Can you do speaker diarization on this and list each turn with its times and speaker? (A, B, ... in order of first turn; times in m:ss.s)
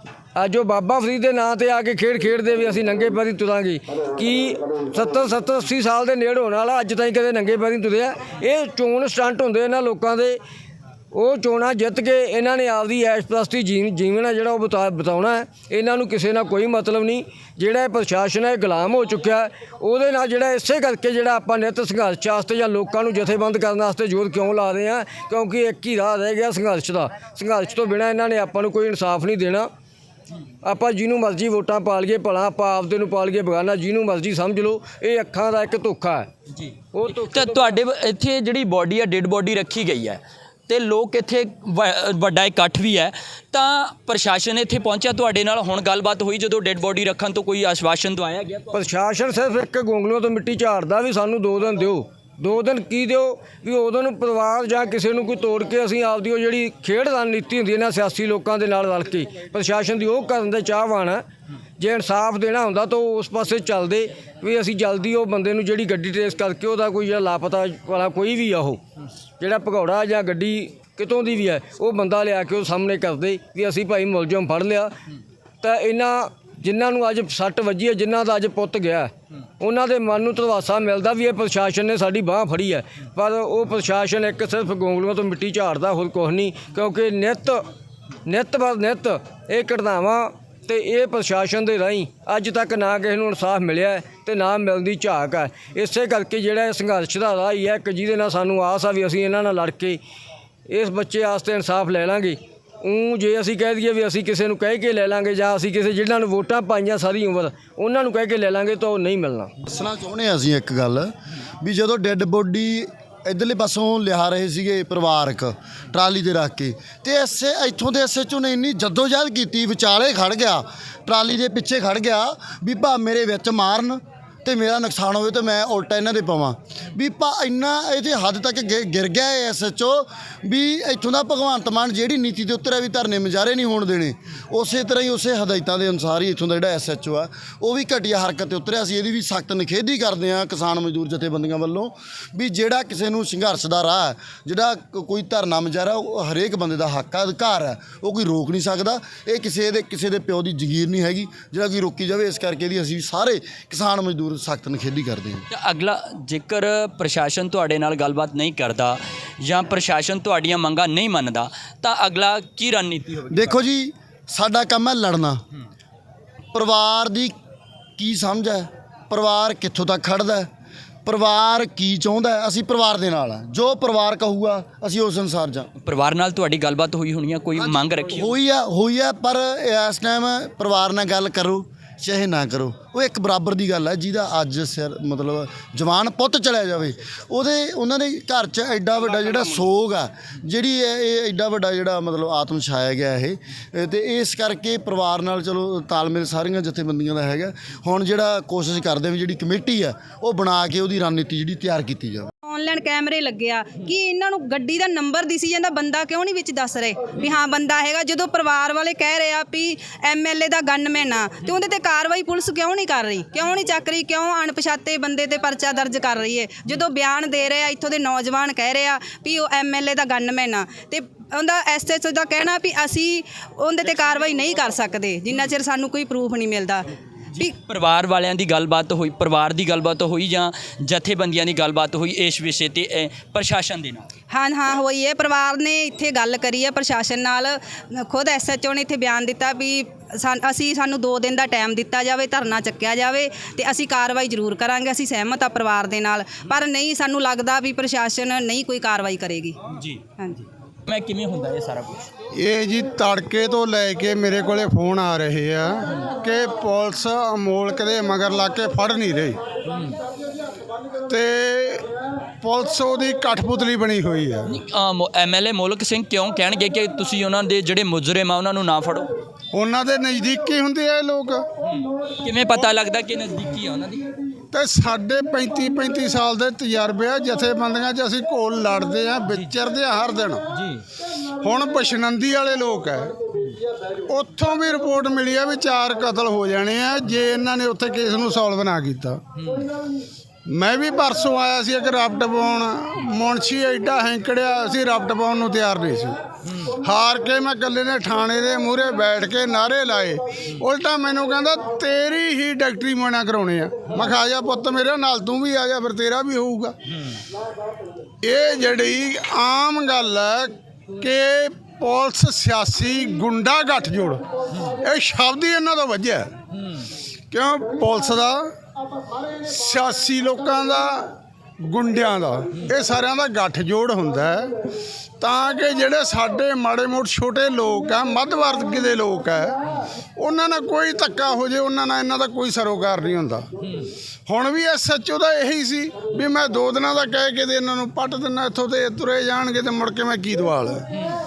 0:00.4-0:10.4 A
0:11.1-0:29.7 A
0:30.6-0:36.3 A
0:36.5-0:48.8 B
0:36.9-0:37.8 A
0:48.7-1:01.2 A
1:01.8-1:08.8 A
1:09.4-1:14.9 A
1:15.6-1:27.6 A
1:28.2-1:40.0 A
1:40.7-1:49.5 A
1:49.6-2:35.4 C
2:35.5-2:43.6 B
2:43.3-2:45.4 C
2:46.5-2:47.3 C
2:48.0-2:50.5 C
2:51.0-2:55.7 C
2:55.8-2:58.3 B
2:58.1-3:22.3 C
3:22.4-3:47.5 D
3:47.4-3:54.1 B
3:54.3-4:09.6 D
4:09.7-4:10.0 B
4:10.2-4:10.4 D
4:10.9-4:12.1 B
4:12.3-4:19.4 E
4:21.1-4:21.9 E
4:22.4-4:24.5 E
4:24.5-4:29.1 B
4:29.5-4:31.4 E
4:32.2-4:34.1 B
4:34.5-4:40.4 E
4:40.6-4:40.8 B
4:41.4-4:43.1 E
4:44.1-4:49.2 E
4:50.4-4:56.2 E
4:56.8-5:06.8 E
5:08.2-5:16.3 E
5:17.3-5:18.5 E
5:19.4-5:21.1 E
5:21.6-5:24.5 E
5:25.2-5:29.5 E
5:30.2-5:33.5 E
5:34.3-5:40.8 E